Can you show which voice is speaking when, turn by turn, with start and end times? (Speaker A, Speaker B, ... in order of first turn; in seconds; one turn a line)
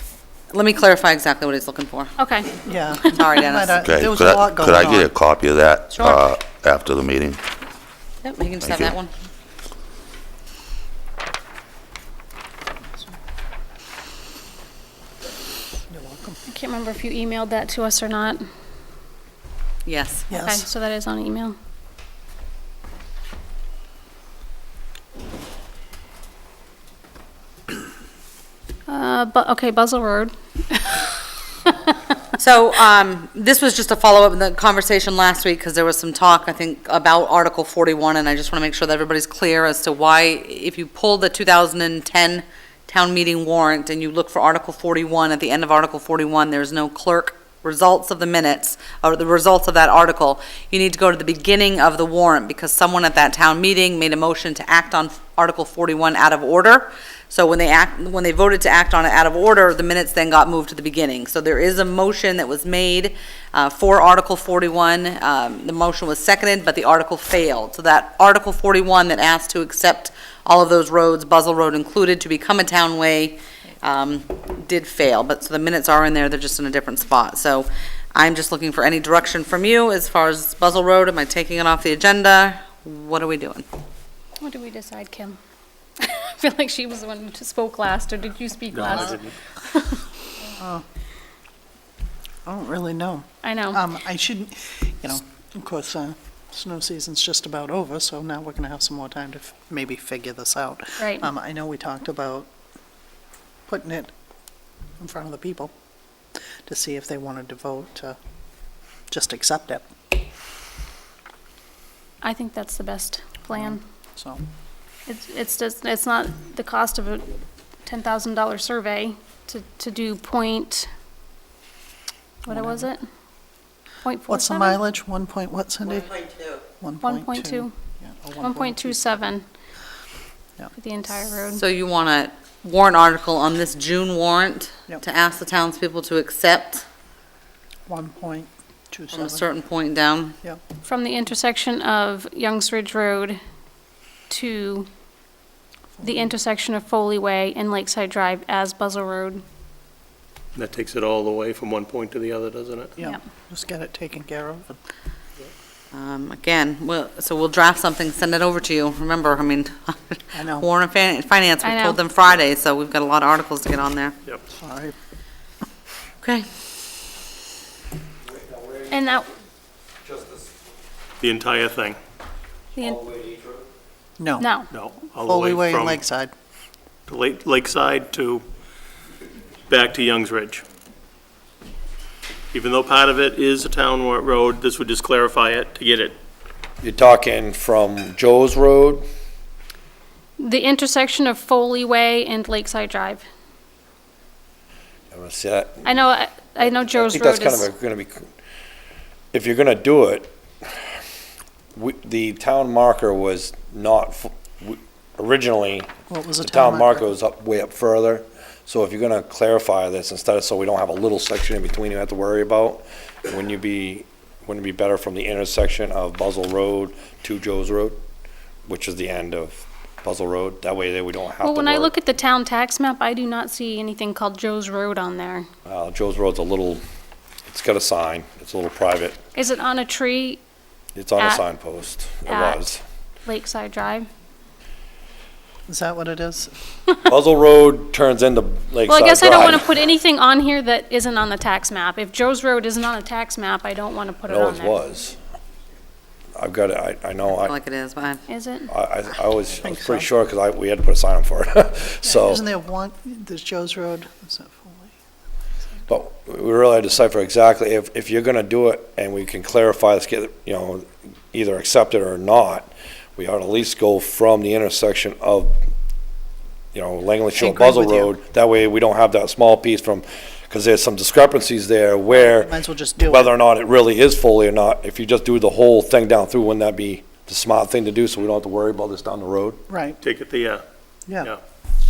Speaker A: 0.5-2.1
Speaker B: 2.2-3.1
Speaker C: 2.6-5.1
Speaker A: 3.1-3.8
Speaker D: 3.7-7.4
Speaker A: 5.9-6.2
Speaker A: 8.2-9.1
Speaker D: 8.6-8.9
Speaker C: 15.9-16.4
Speaker B: 16.5-18.4
Speaker A: 19.9-20.3
Speaker C: 20.3-20.6
Speaker B: 20.3-21.6
Speaker B: 28.9-31.1
Speaker A: 32.4-83.6
Speaker B: 84.4-85.4
Speaker B: 86.0-90.0
Speaker E: 88.7-89.3
Speaker C: 90.6-90.8
Speaker C: 92.4-102.5
Speaker B: 93.4-93.8
Speaker B: 101.0-101.3
Speaker C: 103.7-104.1
Speaker C: 105.0-105.7
Speaker C: 106.7-108.2
Speaker C: 109.1-109.8
Speaker B: 112.2-113.8
Speaker C: 113.5-114.4
Speaker B: 115.1-117.3
Speaker B: 117.8-120.9
Speaker B: 122.4-123.0
Speaker C: 122.5-122.9
Speaker B: 124.0-124.8
Speaker C: 124.3-126.2
Speaker A: 126.1-126.6
Speaker C: 126.8-129.2
Speaker B: 127.0-127.7
Speaker B: 128.4-129.4
Speaker B: 130.7-131.6
Speaker A: 131.5-136.8
Speaker C: 137.9-139.4
Speaker A: 139.1-140.3
Speaker B: 140.8-143.4
Speaker B: 144.3-144.9
Speaker C: 146.0-146.3
Speaker B: 146.0-149.4
Speaker E: 150.6-152.9
Speaker C: 153.0-154.8
Speaker A: 155.9-164.2
Speaker C: 160.3-160.7
Speaker B: 161.6-162.0
Speaker C: 164.5-164.9
Speaker F: 168.3-169.1
Speaker B: 168.9-169.3
Speaker F: 170.0-170.4
Speaker E: 171.2-172.0
Speaker B: 172.7-173.0
Speaker F: 172.8-173.7
Speaker C: 174.2-174.5
Speaker B: 174.4-174.7
Speaker E: 174.7-176.0
Speaker C: 175.2-176.3
Speaker E: 177.1-178.4
Speaker E: 179.7-180.6
Speaker E: 182.5-186.1
Speaker F: 186.8-189.0
Speaker B: 190.4-193.2
Speaker F: 195.1-195.8
Speaker B: 195.8-197.7
Speaker F: 196.9-198.2
Speaker F: 199.3-200.7
Speaker F: 201.7-205.9
Speaker C: 206.1-207.1
Speaker F: 206.4-218.0
Speaker F: 218.7-221.9
Speaker B: 221.4-225.5
Speaker F: 225.7-226.8
Speaker F: 227.5-229.2
Speaker B: 229.3-230.4
Speaker F: 230.9-232.8
Speaker B: 231.2-231.4
Speaker B: 232.2-232.6
Speaker B: 233.2-234.1
Speaker C: 235.7-236.5
Speaker F: 237.1-239.7
Speaker B: 238.8-244.8
Speaker F: 244.3-245.2
Speaker F: 246.3-247.6
Speaker A: 247.3-248.2
Speaker B: 248.3-248.7
Speaker F: 248.7-252.4
Speaker C: 249.6-250.1
Speaker C: 252.0-254.9
Speaker F: 255.9-265.5
Speaker F: 266.7-279.6
Speaker C: 267.4-268.1
Speaker C: 272.1-273.3
Speaker C: 279.7-280.0
Speaker E: 280.0-280.6